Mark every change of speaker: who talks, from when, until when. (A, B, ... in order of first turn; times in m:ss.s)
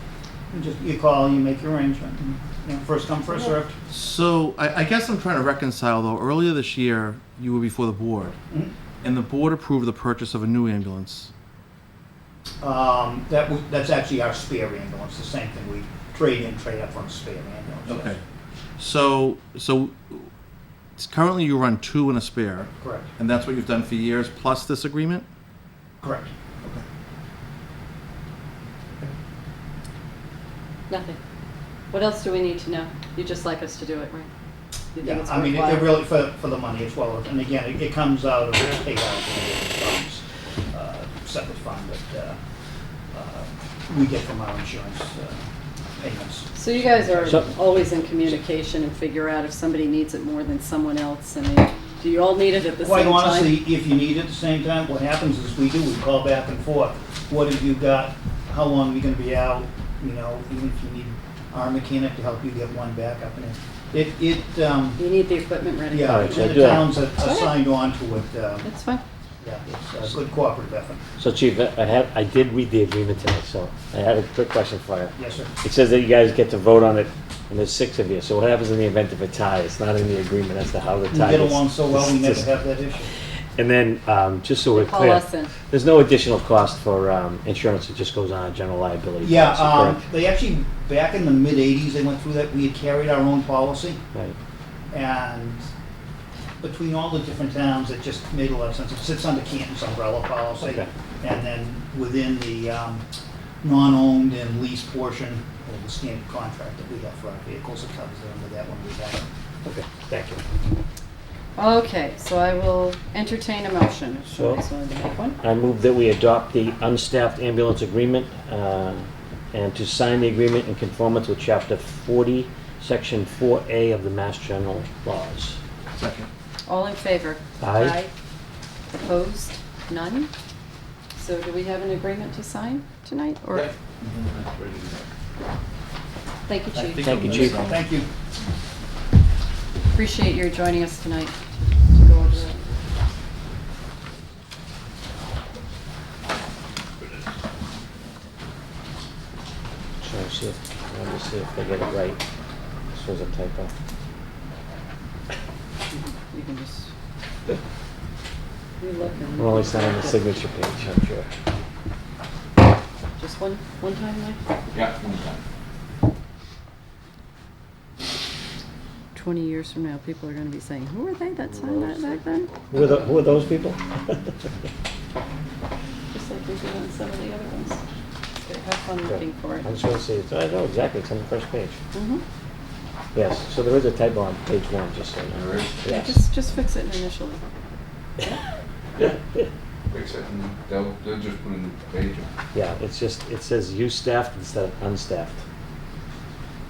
0:00.5-0:03.8 A
0:03.9-0:08.4 B
0:09.0-0:11.3 B
0:12.6-0:18.2 A
0:17.9-0:18.2 B
0:18.8-0:20.3 B
0:21.0-0:25.2 B
0:22.8-0:23.1 A
0:26.0-0:26.3 A
0:30.9-0:31.2 C
0:31.9-0:34.3 C
0:34.9-0:36.0 C
0:35.0-0:42.4 A
0:43.1-0:48.4 A
0:46.5-0:53.6 C
0:52.8-1:05.0 A
1:05.0-1:06.6 C
1:05.9-1:08.7 A
1:06.0-1:07.0 D
1:07.2-1:07.6 C
1:08.6-1:09.0 C
1:09.4-1:11.0 A
1:11.2-1:22.4 D
1:15.2-1:15.5 A
1:21.1-1:23.1 A
1:23.6-1:30.0 D
1:24.7-1:25.6 C
1:29.2-1:34.0 A
1:34.9-1:35.7 A
1:36.6-1:43.0 A
1:40.6-1:40.9 D
1:43.6-1:49.2 A
1:49.6-1:50.4 D
1:51.6-1:55.4 C
1:54.3-1:54.6 D
1:55.4-2:05.6 D
2:06.0-2:06.3 B
2:06.6-2:08.1 C
2:07.6-2:07.9 D
2:08.9-2:10.3 C
2:11.2-2:13.7 C
2:13.5-2:15.0 E
2:16.5-2:17.7 C
2:16.7-2:17.6 B
2:17.0-2:17.7 D
2:17.3-2:18.1 A
2:19.9-2:22.6 C
2:30.0-2:32.2 D
2:32.9-2:33.7 D
2:35.9-2:36.9 C
2:38.8-2:40.3 C
2:39.4-2:41.3 D
2:43.2-2:44.4 C
2:44.7-2:45.4 E
2:49.1-2:52.6 C
2:51.5-2:52.5 E
2:52.7-2:54.3 D
2:56.1-2:57.8 C
2:58.4-2:59.7 C
2:59.0-3:01.8 D
3:01.9-3:02.2 C
3:03.1-3:06.2 D
3:05.3-3:05.8 E
3:05.8-3:07.4 C
3:09.9-3:12.3 E
3:12.5-3:15.4 D